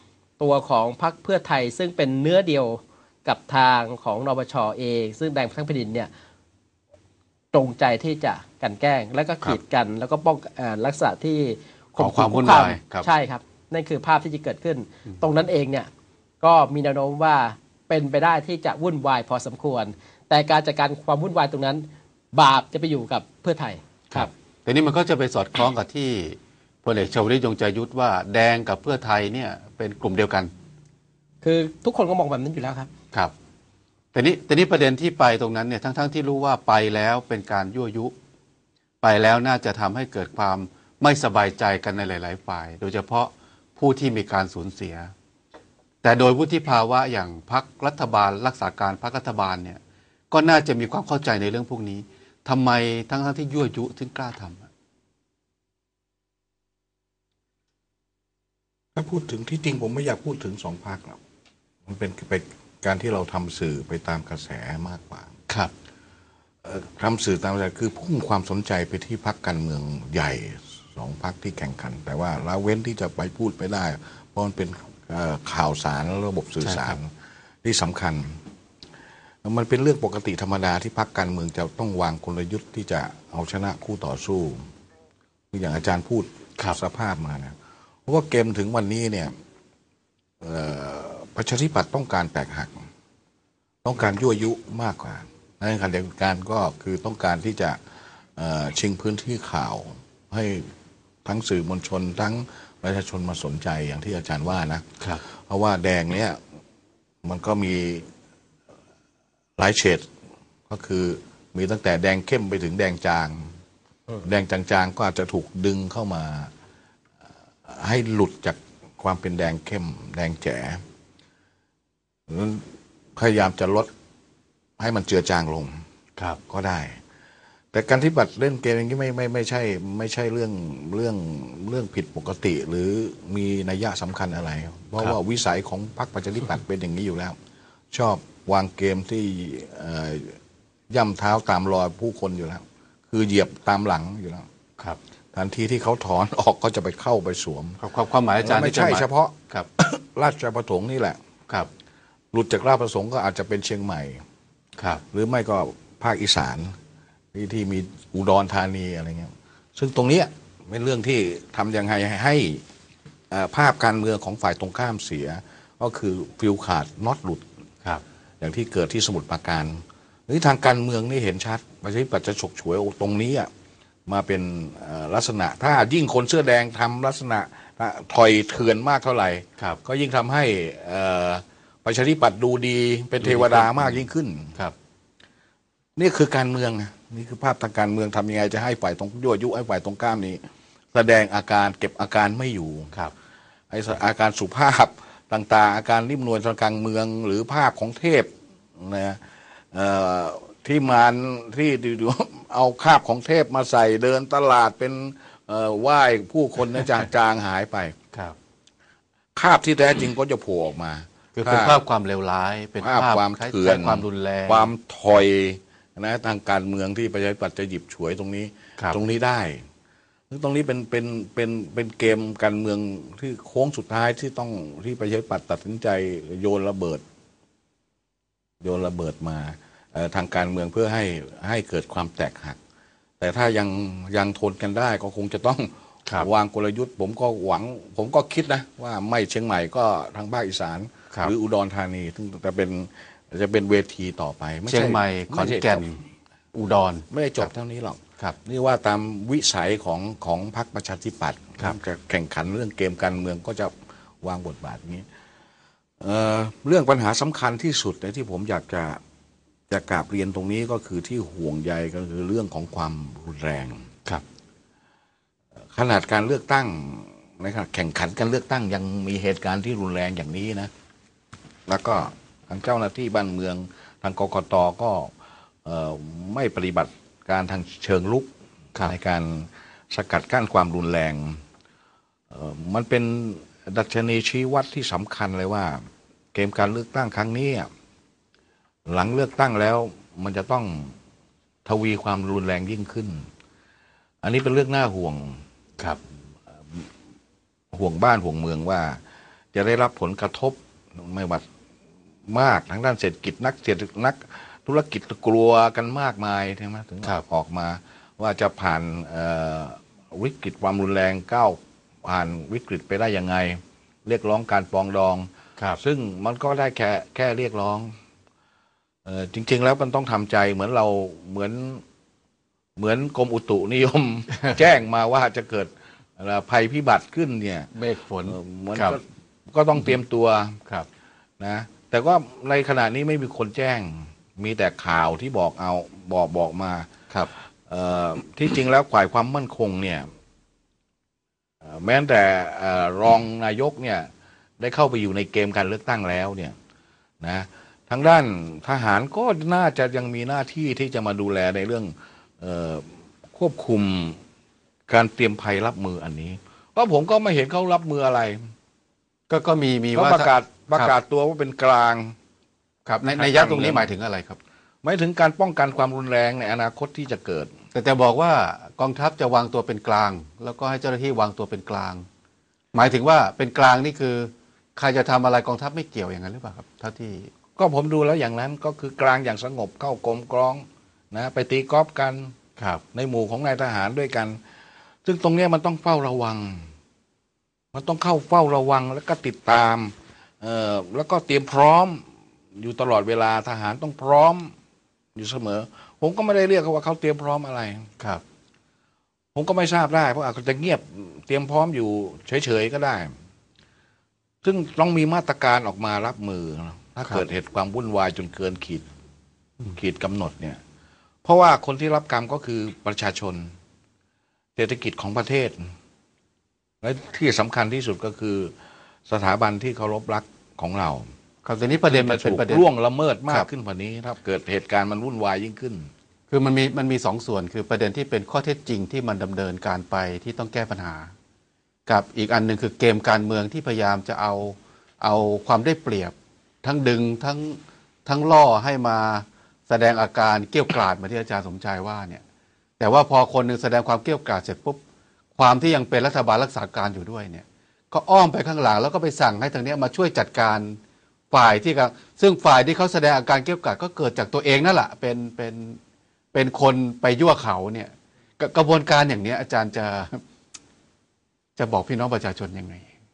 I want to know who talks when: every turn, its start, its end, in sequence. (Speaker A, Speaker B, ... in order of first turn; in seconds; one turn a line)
Speaker A: 0.4-6.1
Speaker A: 7.5-15.9
Speaker B: 12.0-13.1
Speaker A: 16.4-24.3
Speaker B: 24.1-30.5
Speaker A: 31.4-32.9
Speaker B: 34.1-38.1
Speaker B: 39.0-45.1
Speaker B: 46.0-49.8
Speaker B: 50.3-54.7
Speaker C: 59.0-61.2
Speaker C: 61.9-65.3
Speaker C: 66.6-77.1
Speaker B: 76.6-77.0
Speaker C: 77.6-78.4
Speaker C: 79.4-84.7
Speaker C: 85.5-89.3
Speaker C: 90.4-92.9
Speaker C: 93.8-97.8
Speaker C: 98.4-100.7
Speaker C: 101.2-106.4
Speaker C: 107.2-108.1
Speaker C: 109.6-110.1
Speaker C: 110.7-113.5
Speaker C: 114.2-116.5
Speaker C: 117.7-120.8
Speaker C: 122.3-122.7
Speaker C: 123.2-123.9
Speaker C: 124.8-125.8
Speaker C: 126.5-127.0
Speaker C: 127.7-137.4
Speaker C: 137.9-140.4
Speaker C: 140.9-144.5
Speaker C: 145.3-147.8
Speaker B: 147.8-149.7
Speaker C: 148.4-151.2
Speaker C: 152.3-154.2
Speaker B: 154.8-155.0
Speaker C: 155.1-156.8
Speaker C: 157.3-162.6
Speaker C: 163.3-167.5
Speaker C: 168.4-173.5
Speaker C: 174.1-184.6
Speaker B: 183.2-184.0
Speaker C: 186.0-190.4
Speaker C: 190.9-192.9
Speaker C: 193.7-208.0
Speaker C: 209.4-211.8
Speaker B: 211.3-214.7
Speaker C: 212.8-219.6
Speaker C: 220.3-227.0
Speaker C: 228.6-232.6
Speaker C: 233.2-245.8
Speaker B: 244.7-246.0
Speaker B: 246.5-247.5
Speaker C: 247.1-255.1
Speaker C: 256.0-259.0
Speaker C: 259.7-263.9
Speaker C: 265.7-270.7
Speaker C: 271.7-275.1
Speaker C: 275.6-278.3
Speaker C: 278.8-281.4
Speaker C: 282.3-287.7
Speaker C: 288.9-290.9
Speaker C: 291.6-293.3
Speaker C: 294.2-295.4
Speaker C: 297.7-299.0
Speaker C: 299.5-301.4
Speaker C: 302.3-317.9
Speaker C: 319.1-321.8
Speaker C: 322.8-327.7
Speaker B: 327.7-329.0
Speaker C: 328.3-330.6
Speaker C: 331.4-336.9
Speaker C: 337.6-340.1
Speaker C: 341.6-346.6
Speaker C: 347.2-354.2
Speaker C: 354.9-358.5
Speaker B: 359.3-360.9
Speaker C: 359.9-362.1
Speaker B: 362.9-364.4
Speaker C: 363.2-363.9
Speaker C: 364.8-367.5
Speaker B: 367.7-372.1
Speaker B: 372.7-377.3
Speaker C: 377.6-382.3
Speaker B: 382.6-382.8
Speaker C: 382.9-384.4
Speaker C: 385.1-386.7
Speaker C: 387.7-392.0
Speaker C: 392.6-394.5
Speaker C: 395.2-397.9
Speaker C: 399.4-403.1
Speaker C: 404.4-408.9
Speaker C: 409.7-410.6
Speaker C: 411.2-413.5
Speaker C: 414.6-415.7
Speaker C: 416.8-418.5
Speaker C: 419.1-421.1
Speaker B: 421.4-422.7
Speaker C: 421.9-425.9
Speaker B: 426.3-431.1
Speaker B: 431.9-442.2
Speaker B: 442.8-444.8
Speaker B: 445.4-450.8
Speaker B: 451.3-455.8
Speaker B: 456.3-460.2
Speaker B: 461.6-462.9